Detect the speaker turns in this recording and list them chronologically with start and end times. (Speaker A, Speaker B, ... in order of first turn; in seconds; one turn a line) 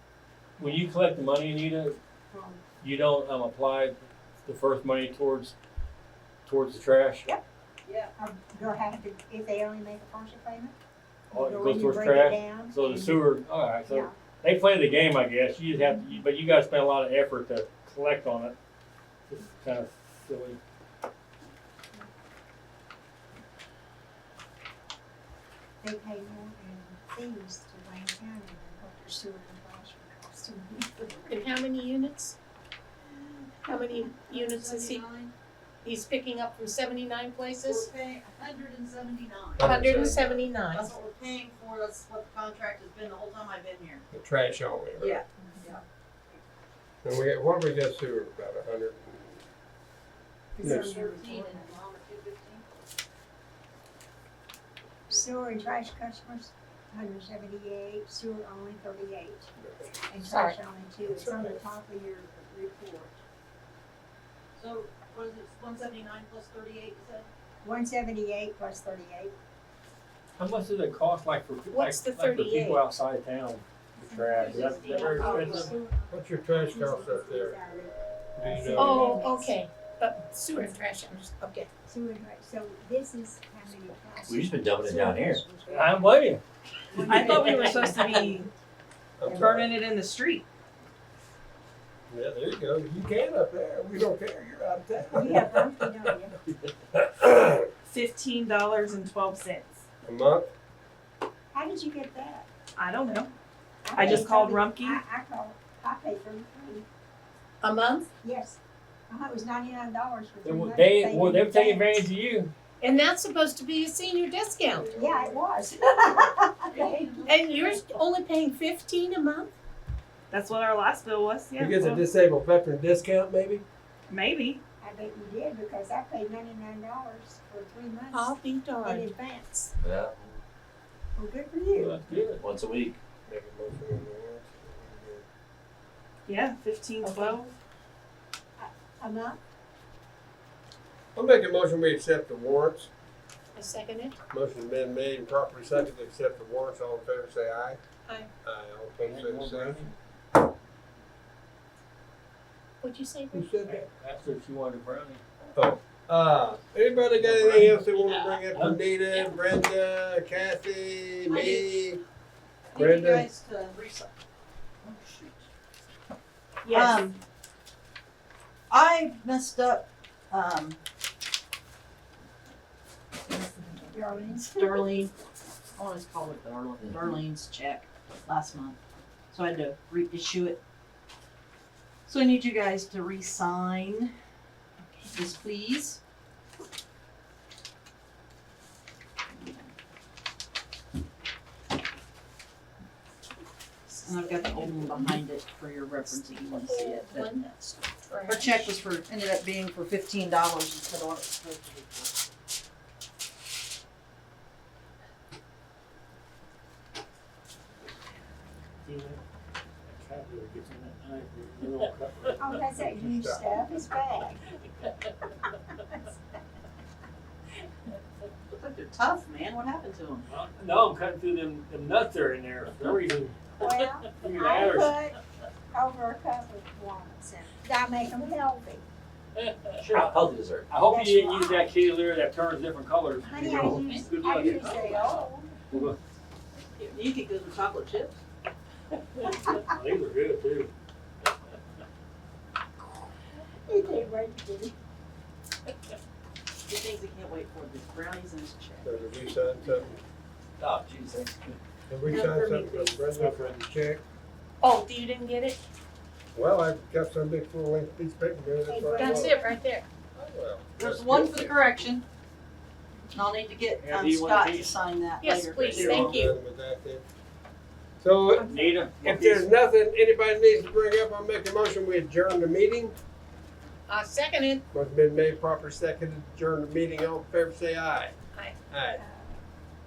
Speaker A: 0.6-2.0
Speaker B: 2.3-2.6
Speaker A: 2.8-5.5
Speaker A: 6.5-7.3
Speaker C: 7.8-8.1
Speaker B: 8.2-10.7
Speaker B: 11.3-13.3
Speaker A: 11.3-18.5
Speaker B: 13.8-14.2
Speaker A: 19.3-20.6
Speaker B: 25.8-31.2
Speaker D: 31.2-32.4
Speaker D: 33.6-35.0
Speaker C: 34.1-35.3
Speaker D: 35.8-37.9
Speaker C: 37.6-44.0
Speaker E: 39.6-40.4
Speaker D: 39.6-41.0
Speaker E: 44.1-45.2
Speaker C: 45.0-45.8
Speaker E: 47.0-49.4
Speaker B: 50.6-51.8
Speaker C: 50.6-52.6
Speaker E: 50.6-50.9
Speaker B: 55.1-59.5
Speaker E: 59.6-60.0
Speaker B: 60.0-63.2
Speaker D: 60.2-60.5
Speaker E: 61.0-61.6
Speaker C: 64.5-67.3
Speaker B: 67.6-69.3
Speaker A: 70.4-75.7
Speaker D: 71.7-72.8
Speaker B: 74.1-74.4
Speaker C: 74.3-75.7
Speaker D: 74.8-75.7
Speaker B: 75.0-79.6
Speaker E: 76.1-79.1
Speaker D: 78.8-81.7
Speaker B: 81.8-86.2
Speaker F: 84.3-85.4
Speaker A: 85.7-86.4
Speaker B: 86.9-88.2
Speaker A: 86.9-87.8
Speaker G: 87.0-88.5
Speaker E: 89.2-89.7
Speaker G: 89.3-90.5
Speaker E: 92.1-95.9
Speaker B: 95.1-96.3
Speaker E: 96.9-97.7
Speaker G: 97.8-99.8
Speaker E: 100.0-100.5
Speaker B: 101.5-102.5
Speaker G: 102.8-103.3
Speaker B: 103.8-106.8
Speaker G: 104.0-105.0
Speaker D: 107.6-108.1
Speaker B: 108.2-108.6
Speaker B: 109.1-112.0
Speaker A: 110.4-112.5
Speaker D: 112.8-114.9
Speaker E: 114.7-115.4
Speaker B: 114.9-117.1
Speaker C: 116.7-118.0
Speaker D: 117.2-119.5
Speaker G: 120.3-122.0
Speaker E: 121.6-123.6
Speaker G: 124.1-124.6
Speaker B: 124.8-129.7
Speaker D: 128.1-129.1
Speaker F: 129.8-130.4
Speaker B: 131.2-132.0
Speaker A: 131.8-132.4
Speaker F: 132.4-133.0
Speaker E: 133.2-135.2
Speaker G: 136.2-137.5
Speaker B: 137.0-137.3
Speaker B: 138.6-139.4
Speaker E: 141.1-142.9
Speaker D: 143.5-144.2
Speaker E: 144.3-147.8
Speaker E: 148.4-149.8
Speaker A: 149.0-149.9
Speaker D: 152.8-153.5
Speaker E: 153.3-153.8
Speaker A: 153.6-155.2
Speaker E: 155.5-162.0
Speaker A: 157.1-158.7
Speaker C: 161.3-161.7
Speaker C: 162.7-164.1
Speaker E: 162.8-163.3
Speaker C: 164.8-165.4
Speaker G: 166.6-167.1
Speaker C: 166.7-167.2
Speaker C: 168.7-170.8
Speaker B: 173.3-174.9
Speaker C: 174.3-175.1
Speaker C: 175.8-178.8
Speaker F: 176.8-177.2
Speaker C: 179.3-180.6
Speaker C: 182.1-184.1
Speaker C: 185.1-186.0
Speaker C: 189.3-189.7
Speaker D: 193.9-194.9
Speaker C: 194.0-202.1
Speaker D: 196.4-198.7
Speaker A: 208.8-209.2
Speaker A: 209.9-212.4
Speaker B: 212.4-214.5
Speaker E: 212.5-213.4
Speaker C: 218.5-220.3
Speaker A: 220.3-225.0
Speaker B: 223.6-225.2
Speaker B: 225.7-228.8
Speaker A: 229.4-234.7
Speaker F: 229.8-230.8
Speaker B: 230.8-231.7
Speaker B: 233.2-235.5
Speaker C: 233.4-235.2
Speaker A: 235.7-235.9
Speaker C: 236.9-238.2
Speaker A: 239.2-240.7
Speaker B: 243.7-244.7
Speaker C: 246.7-249.3
Speaker E: 248.8-249.9
Speaker F: 250.6-251.3
Speaker A: 250.7-251.2
Speaker E: 251.9-254.0
Speaker C: 252.0-253.0
Speaker A: 253.1-253.6
Speaker D: 254.6-255.6
Speaker E: 256.3-259.4
Speaker B: 258.7-259.6
Speaker D: 258.9-259.8
Speaker E: 260.1-261.6
Speaker C: 260.8-262.0
Speaker C: 263.1-266.3
Speaker A: 263.8-264.7
Speaker D: 265.2-266.4
Speaker E: 265.7-267.0
Speaker E: 268.0-272.9
Speaker B: 268.4-268.9
Speaker A: 268.4-269.4
Speaker D: 273.9-274.6
Speaker E: 274.7-278.1
Speaker E: 278.7-279.0
Speaker B: 278.9-279.4